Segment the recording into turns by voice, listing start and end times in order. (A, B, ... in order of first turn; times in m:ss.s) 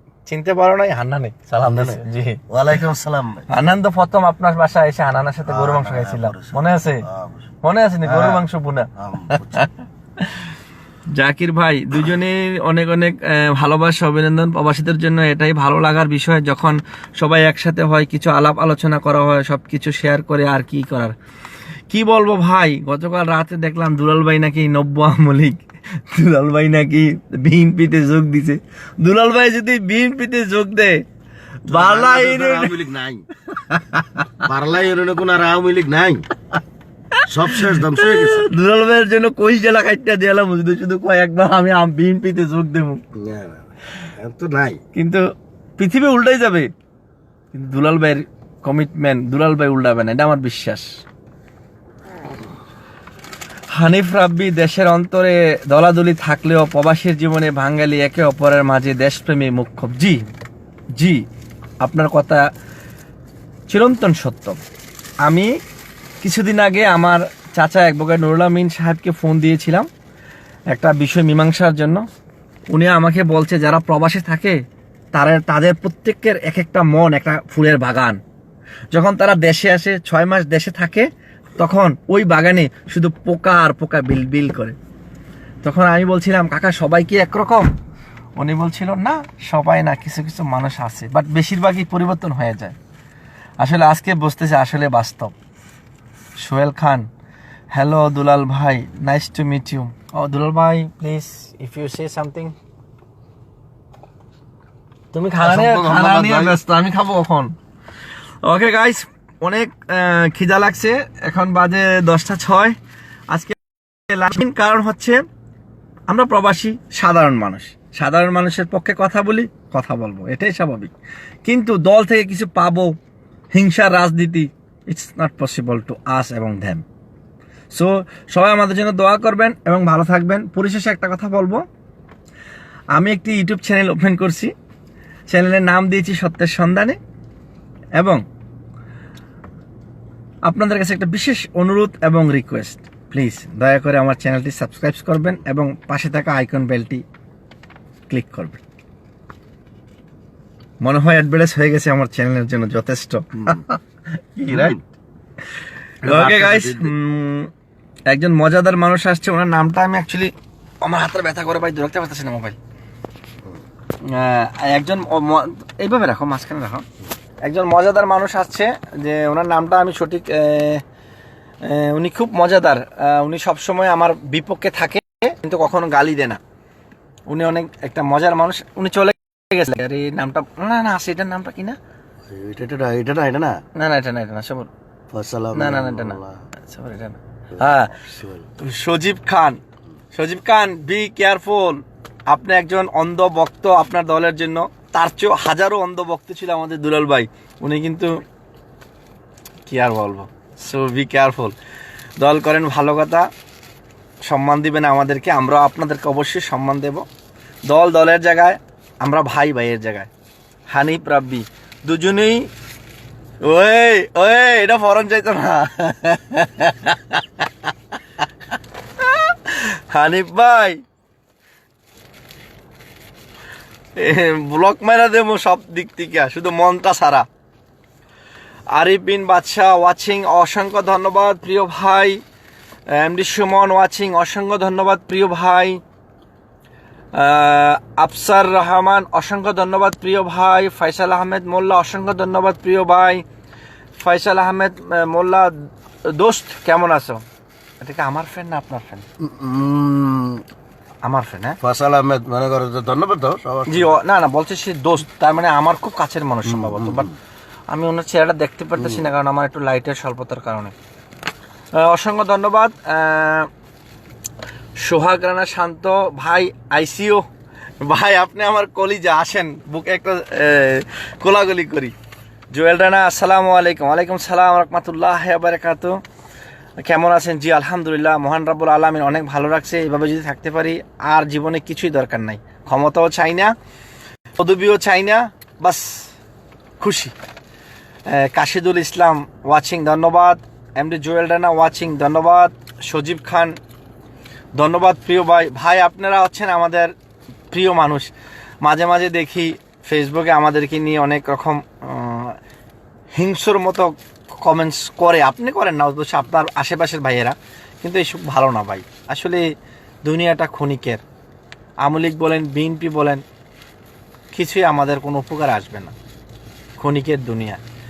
0:00.3-0:02.4 A
0:01.6-0:03.5 B
0:03.5-0:07.1 A
0:05.5-0:07.4 B
0:07.6-0:10.5 A
0:08.0-0:08.4 B
0:09.0-0:09.7 B
0:11.1-0:21.2 A
0:21.9-0:31.0 A
0:31.7-0:32.8 A
0:31.7-0:33.2 B
0:33.5-0:34.4 A
0:34.4-0:36.2 B
0:37.2-0:43.0 A
0:37.3-0:38.5 B
0:43.2-0:44.8 B
0:45.0-0:45.2 A
0:45.8-0:46.7 A
0:47.5-0:50.9 A
0:53.7-1:00.2 A
1:01.0-1:01.2 A
1:01.8-1:02.5 A
1:03.7-1:04.6 A
1:05.2-1:05.5 A
1:06.2-1:09.9 A
1:10.7-1:12.0 A
1:12.7-1:14.6 A
1:15.1-1:18.2 A
1:18.9-1:24.8 A
1:25.6-1:27.7 A
1:28.4-1:32.8 A
1:33.6-1:35.3 A
1:36.4-1:37.1 A
1:37.7-1:42.6 A
1:45.1-1:47.5 A
1:45.4-1:46.6 B
1:48.4-1:52.8 A
1:53.3-1:55.2 A
1:56.1-2:00.9 A
2:01.4-2:02.9 A
2:03.5-2:06.8 A
2:07.7-2:11.6 A
2:13.0-2:14.5 A
2:15.3-2:17.0 A
2:18.0-2:18.2 A
2:20.4-2:27.0 A
2:28.1-2:28.6 A
2:30.8-2:34.8 A
2:34.5-2:34.8 B
2:36.0-2:36.9 B
2:36.0-2:37.5 A
2:38.1-2:42.6 A
2:44.0-2:46.8 A
2:47.4-2:50.8 A
2:51.6-2:56.4 A
2:57.3-3:01.8 A
3:02.3-3:03.6 B
3:03.8-3:04.7 A
3:05.1-3:06.4 B
3:05.5-3:09.6 A
3:07.7-3:08.5 B
3:10.1-3:18.2 A
3:19.7-3:21.6 A
3:22.2-3:23.3 A
3:24.3-3:27.0 A
3:27.7-3:30.1 A
3:30.7-3:32.5 A
3:33.4-3:37.5 A
3:39.0-3:40.8 A
3:44.0-3:47.3 A
3:48.7-3:52.2 A
3:52.9-3:55.8 A
3:57.2-4:03.2 A
4:04.0-4:05.5 A
4:06.1-4:07.2 A
4:07.8-4:09.1 A
4:09.2-4:10.4 B
4:11.0-4:11.6 A
4:11.6-4:14.0 B
4:13.7-4:17.1 A
4:16.5-4:17.1 B
4:17.7-4:20.7 A
4:21.7-4:23.5 A
4:24.8-4:27.2 A
4:27.8-4:31.9 A
4:32.5-4:36.0 A
4:36.8-4:43.5 A
4:44.4-4:46.1 A
4:46.8-4:47.1 A
4:48.1-4:53.6 A
4:54.6-4:56.9 A
4:57.5-4:58.1 A
4:58.6-5:02.4 A
5:03.2-5:09.4 A
5:10.0-5:11.0 A
5:11.8-5:13.2 A
5:14.3-5:15.9 A
5:16.8-5:17.6 A